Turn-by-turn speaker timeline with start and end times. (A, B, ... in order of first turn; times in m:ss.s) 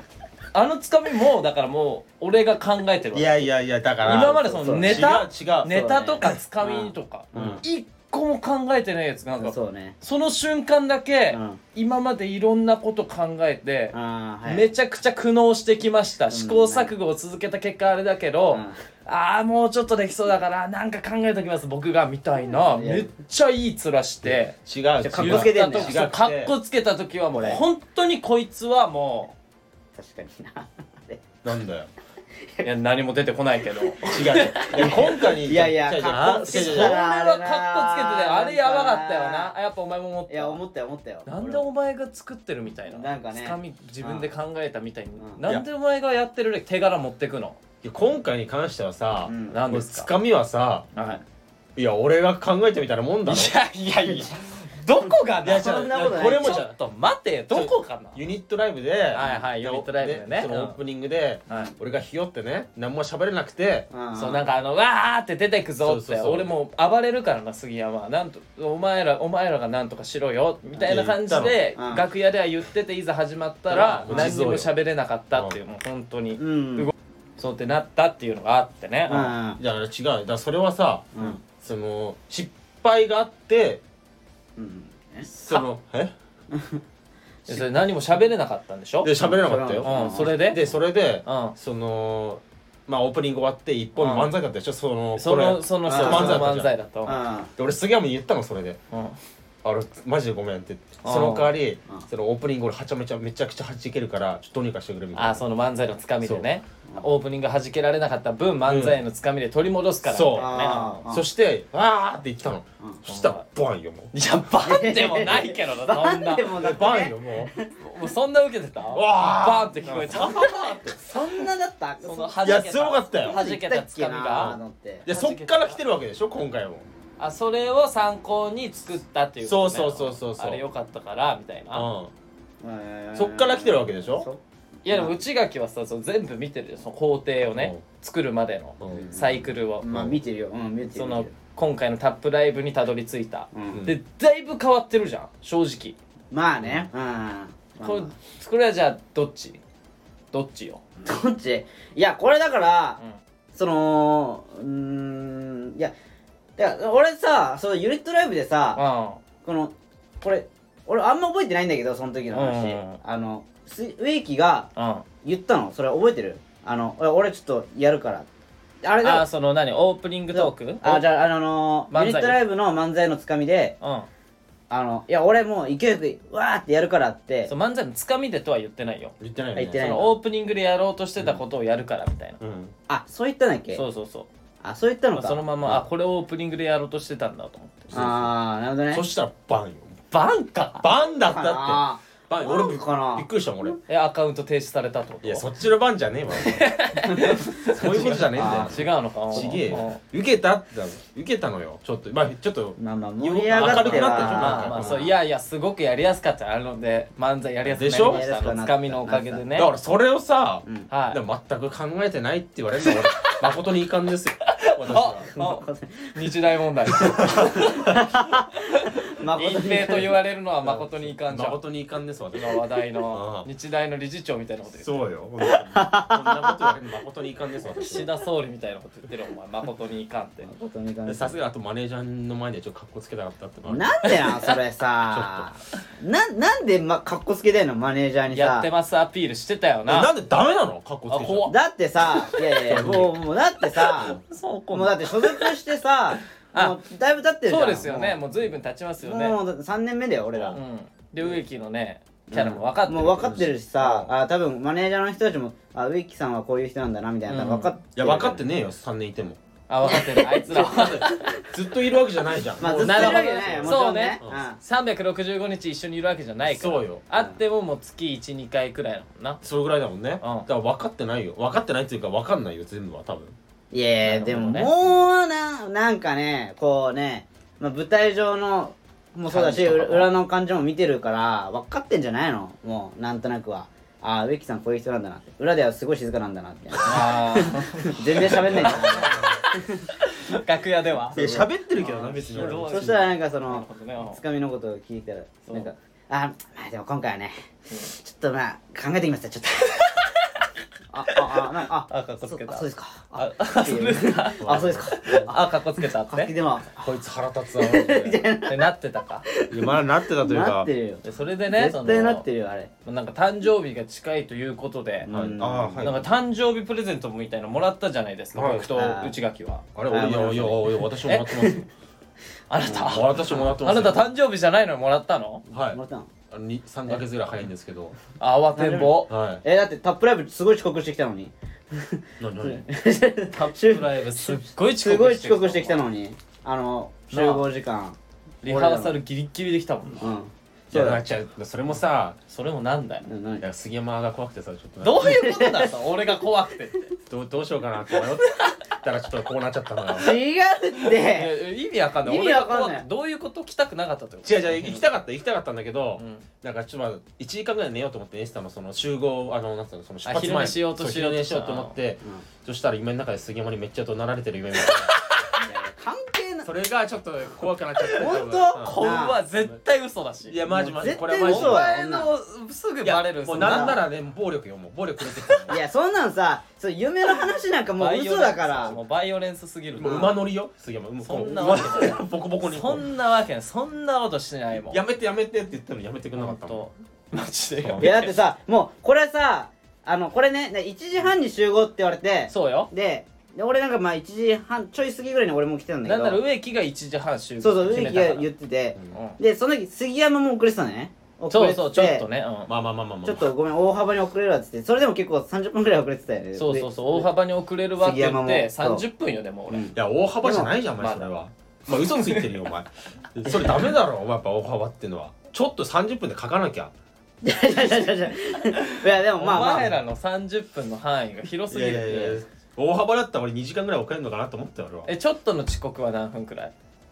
0:00.5-0:03.5 A
0:03.1-0:05.8 B
0:04.0-0:24.6 A
0:04.6-0:05.1 C
0:05.7-0:07.6 C
0:07.3-0:07.6 B
0:09.4-0:10.0 C
0:11.3-0:11.6 C
0:13.9-0:14.7 C
0:16.3-0:16.9 C
0:18.5-0:18.8 C
0:22.6-0:23.1 C
0:24.2-0:26.5 B
0:25.0-0:26.0 C
0:25.2-0:29.3 A
0:27.4-0:27.6 C
0:30.0-0:31.2 C
0:31.4-0:31.9 B
0:32.6-0:35.3 A
0:34.1-0:36.9 B
0:34.6-0:39.5 C
0:36.1-0:40.6 A
0:40.3-0:41.7 C
0:41.2-0:47.6 A
0:42.9-0:44.3 C
0:47.8-0:50.9 B
0:49.2-0:49.6 C
0:49.5-0:50.1 A
0:50.9-0:51.2 A
0:51.0-0:51.2 C
0:51.8-0:53.5 B
0:53.2-0:58.2 A
0:55.4-0:56.7 B
0:55.5-0:56.6 C
0:57.5-1:03.9 B
0:59.1-1:00.8 A
1:03.9-1:04.4 C
1:04.2-1:19.3 A
1:05.8-1:06.5 B
1:10.8-1:11.5 B
1:11.8-1:12.0 C
1:13.7-1:14.7 B
1:14.0-1:14.3 C
1:15.3-1:15.6 B
1:16.4-1:16.9 C
1:19.1-1:19.6 C
1:19.6-1:23.8 B
1:21.1-1:21.4 C
1:24.6-1:25.3 C
1:25.3-1:26.1 B
1:25.4-1:25.6 A
1:26.5-1:26.8 C
1:27.5-1:29.1 A
1:29.0-1:36.7 B
1:29.2-1:30.4 C
1:29.8-1:30.6 A
1:31.2-1:31.5 A
1:34.0-1:34.3 A
1:35.2-1:37.2 A
1:35.9-1:36.5 C
1:37.1-1:37.5 C
1:37.6-1:38.8 B
1:38.9-1:39.2 A
1:39.6-1:45.4 B
1:41.0-1:41.5 A
1:45.2-1:51.0 A
1:48.6-1:49.0 B
1:50.1-1:54.1 B
1:50.3-1:51.2 C
1:53.1-1:53.4 A
1:54.1-1:56.6 A
1:54.6-1:57.7 C
1:56.5-1:57.5 B
1:57.8-2:00.8 A
1:58.9-2:01.0 B
2:00.9-2:02.6 C
2:02.0-2:05.8 A
2:02.4-2:03.4 B
2:03.1-2:05.1 C
2:04.3-2:06.8 B
2:07.2-2:11.9 A
2:09.4-2:10.6 B
2:11.7-2:12.1 B
2:12.6-2:15.1 C
2:13.1-2:14.3 B
2:14.8-2:20.2 A
2:17.5-2:17.8 B
2:18.8-2:19.1 B
2:18.9-2:21.3 C
2:20.9-2:26.0 A
2:23.5-2:23.8 C
2:23.7-2:24.0 B
2:26.3-2:28.1 C
2:26.6-2:26.9 B
2:27.8-2:29.6 A
2:30.3-2:30.8 A
2:31.0-2:33.0 C
2:33.5-2:35.9 C
2:36.6-2:38.8 C
2:38.8-2:39.2 A
2:39.4-2:44.7 C
2:42.3-2:43.0 A
2:44.8-2:45.1 A
2:45.2-2:48.3 C
2:48.8-2:49.3 C
2:49.0-2:51.0 A
2:50.3-2:53.8 C
2:51.9-2:52.4 A
2:53.8-2:54.1 A
2:54.7-2:57.5 C
2:57.5-2:59.1 A
2:59.2-3:00.0 B
2:59.6-3:00.1 C
2:59.8-3:02.4 A
3:02.4-3:02.7 B
3:02.9-3:03.8 C
3:03.8-3:04.3 A
3:04.6-3:05.4 C
3:05.1-3:08.1 A
3:07.9-3:09.0 C
3:07.9-3:08.3 B
3:08.9-3:10.0 B
3:10.1-3:10.8 A
3:10.8-3:13.8 B
3:11.2-3:13.3 C
3:13.9-3:15.5 A
3:15.2-3:25.1 B
3:16.4-3:20.0 A
3:18.4-3:19.6 C
3:22.8-3:24.9 C
3:23.5-3:29.7 A
3:27.6-3:28.4 B
3:27.8-3:29.4 C
3:29.5-3:35.3 B
3:30.9-3:31.2 A
3:32.8-3:33.4 A
3:34.5-3:41.6 A
3:35.3-3:36.2 C
3:37.0-3:37.8 B
3:37.0-3:40.1 C
3:40.6-3:43.5 B
3:42.3-3:45.1 A
3:44.8-3:48.1 B
3:45.6-3:46.8 C
3:47.8-3:50.5 A
3:50.4-3:51.4 C
3:51.1-3:53.9 B
3:53.6-3:58.7 C
3:54.0-3:54.5 A
3:55.1-3:55.5 B
3:58.3-4:00.1 A
3:59.9-4:01.5 B
4:01.1-4:01.6 A
4:01.5-4:04.2 C
4:02.5-4:03.2 B
4:03.8-4:05.5 A
4:04.7-4:08.2 C
4:06.5-4:06.8 A
4:07.4-4:09.4 A
4:09.0-4:10.6 C
4:10.5-4:14.1 A
4:12.3-4:18.4 C
4:13.2-4:13.5 B
4:17.2-4:17.7 A
4:18.0-4:19.4 B
4:19.7-4:21.4 A
4:19.9-4:20.3 C
4:20.3-4:24.4 B
4:22.6-4:24.6 C
4:22.7-4:29.4 A
4:26.5-4:27.0 B
4:29.4-4:33.4 B
4:30.2-4:30.5 A
4:33.7-4:49.9 C
4:34.0-4:34.7 A
4:39.3-4:40.1 A
4:46.8-4:49.4 A
4:48.2-4:49.4 B
4:50.0-4:51.2 A
4:51.1-4:51.5 C
4:51.1-4:53.1 B
4:51.8-4:54.2 A
4:52.3-4:59.9 C
4:59.8-5:00.3 A
5:00.9-5:05.3 C
5:01.9-5:06.3 A
5:04.4-5:05.3 B
5:06.1-5:07.0 C
5:06.8-5:08.2 B
5:07.6-5:08.7 C
5:08.4-5:09.2 A
5:09.3-5:12.7 C
5:09.5-5:10.7 B
5:11.0-5:12.2 A
5:12.8-5:15.1 A
5:15.1-5:15.9 C
5:15.1-5:16.1 B
5:15.8-5:19.6 A
5:18.3-5:18.7 B
5:18.7-5:19.2 C
5:19.8-5:21.7 B
5:19.9-5:21.6 C
5:22.5-5:25.4 A
5:22.6-5:23.0 C
5:22.8-5:24.0 B
5:25.5-5:26.1 C
5:25.5-5:28.0 B
5:28.2-5:29.1 A
5:28.5-5:39.0 C
5:29.1-5:29.4 B
5:32.2-5:32.6 B
5:33.3-5:35.8 A
5:37.1-5:37.4 A
5:38.4-5:40.1 A
5:40.0-5:41.0 C
5:40.7-5:42.2 B
5:42.3-5:43.1 A
5:43.1-5:43.5 C
5:43.4-5:45.1 B
5:44.8-5:47.0 A
5:45.0-5:45.7 C
5:47.1-5:50.1 B
5:47.9-5:48.6 A
5:50.0-5:51.4 C
5:50.8-5:54.8 A
5:52.0-5:52.9 C
5:54.2-6:04.9 B
5:56.0-5:56.3 A
6:00.0-6:01.8 A
6:04.9-6:05.3 A
6:05.4-6:06.5 C
6:06.4-6:09.5 B
6:07.8-6:10.4 A
6:08.0-6:09.2 C
6:10.3-6:11.7 B
6:10.5-6:12.1 C
6:11.2-6:13.8 A
6:12.8-6:15.6 B
6:13.3-6:13.8 C
6:15.5-6:18.8 C
6:17.8-6:20.1 A
6:19.8-6:22.8 B
6:19.8-6:20.1 C
6:21.0-6:24.8 A
6:24.7-6:26.7 B
6:26.2-6:28.2 A
6:27.6-6:27.9 B
6:27.8-6:36.2 C
6:32.3-6:32.7 A
6:35.8-6:38.3 A
6:37.4-6:42.0 C
6:38.9-6:39.2 A
6:41.3-6:42.5 A
6:42.5-6:43.3 B
6:43.0-6:47.1 C
6:46.4-6:49.7 A
6:47.8-6:48.8 C
6:49.5-6:50.5 C
6:49.8-6:56.7 B
6:50.8-6:51.1 A
6:51.7-6:52.3 A
6:53.3-6:53.6 C
6:57.2-6:59.7 C
6:58.5-7:02.2 A
7:01.5-7:04.9 B
7:04.9-7:06.5 A